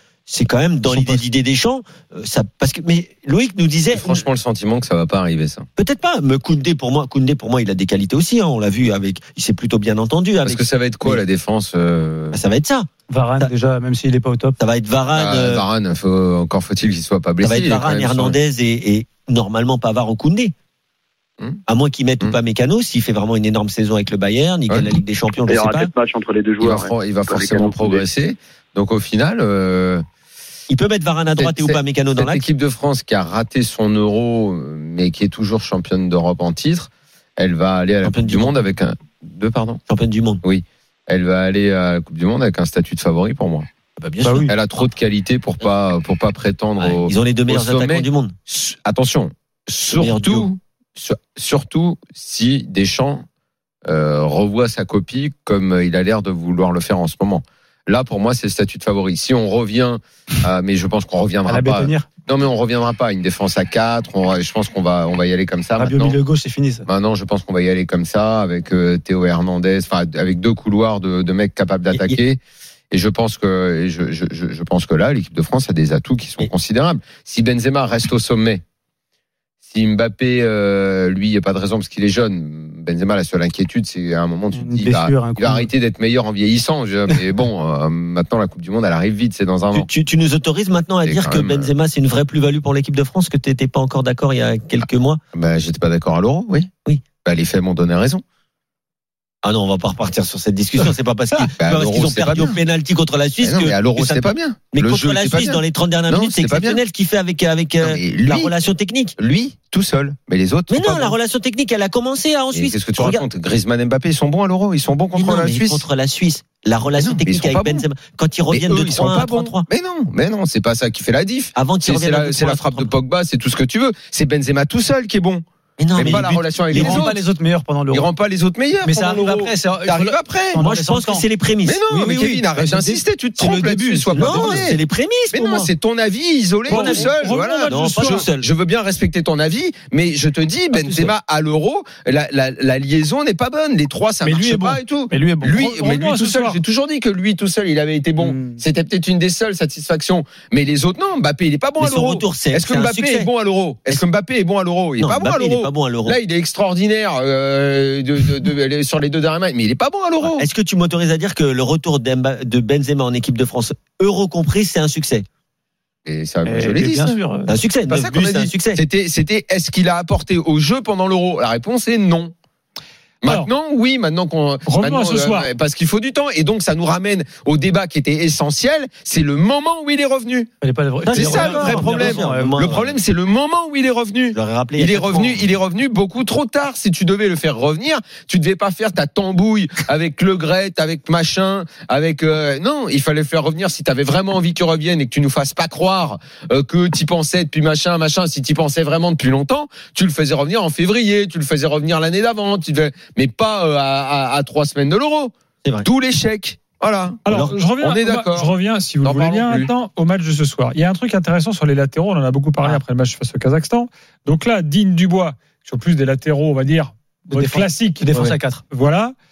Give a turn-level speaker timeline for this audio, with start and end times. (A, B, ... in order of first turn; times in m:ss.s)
0:00.3-0:04.2 A
0:00.9-0:01.2 B
0:03.9-0:05.7 C
0:05.8-0:11.2 A
0:10.4-0:12.4 C
0:12.3-0:12.9 A
0:13.1-0:14.6 B
0:14.6-0:15.6 A
0:15.1-0:18.4 C
0:17.4-0:20.5 A
0:21.7-0:25.9 A
0:24.7-0:25.0 C
0:25.4-0:28.1 D
0:26.6-0:30.0 C
0:30.7-0:32.4 A
0:31.4-0:39.8 C
0:38.0-0:38.6 A
0:39.9-0:40.4 A
0:40.4-0:43.7 C
0:44.0-0:44.5 A
0:44.2-0:44.5 B
0:44.5-0:53.2 C
0:46.8-0:48.3 A
0:50.0-0:50.5 A
0:53.8-1:06.2 C
1:01.4-1:02.1 B
1:05.8-1:06.8 B
1:06.9-1:12.4 C
1:12.9-1:18.6 C
1:19.6-1:29.9 C
1:24.5-1:25.7 B
1:29.7-1:35.2 A
1:31.0-1:31.7 C
1:35.3-1:36.7 C
1:37.2-1:38.2 C
1:39.4-1:49.2 A
1:41.6-1:42.6 C
1:43.4-1:46.8 C
1:47.8-1:48.5 C
1:49.2-1:51.2 C
1:50.7-1:53.2 A
1:52.5-1:55.8 C
1:55.2-1:59.6 A
1:57.0-1:57.8 C
1:58.5-2:05.4 C
2:01.6-2:02.9 A
2:05.8-2:07.1 A
2:05.9-2:07.2 C
2:06.0-2:08.1 B
2:07.9-2:10.6 C
2:08.8-2:11.2 B
2:10.6-2:11.8 A
2:11.6-2:14.8 C
2:11.9-2:14.7 B
2:14.2-2:15.7 A
2:15.3-2:40.4 C
2:16.7-2:18.3 E
2:16.7-2:17.1 A
2:17.7-2:18.5 A
2:20.7-2:21.1 B
2:24.2-2:25.6 B
2:25.6-2:26.6 E
2:28.2-2:28.6 B
2:31.8-2:33.3 A
2:35.0-2:36.2 A
2:40.2-2:45.2 A
2:46.0-2:47.2 C
2:46.4-2:47.5 B
2:47.5-2:48.8 A
2:47.9-2:52.3 C
2:53.2-3:00.5 C
2:53.2-2:53.5 E
2:54.6-2:55.5 E
3:00.6-3:02.6 B
3:01.0-3:03.0 A
3:01.1-3:29.7 C
3:04.3-3:05.4 A
3:27.2-3:39.1 E
3:27.3-3:27.6 A
3:37.3-3:38.6 B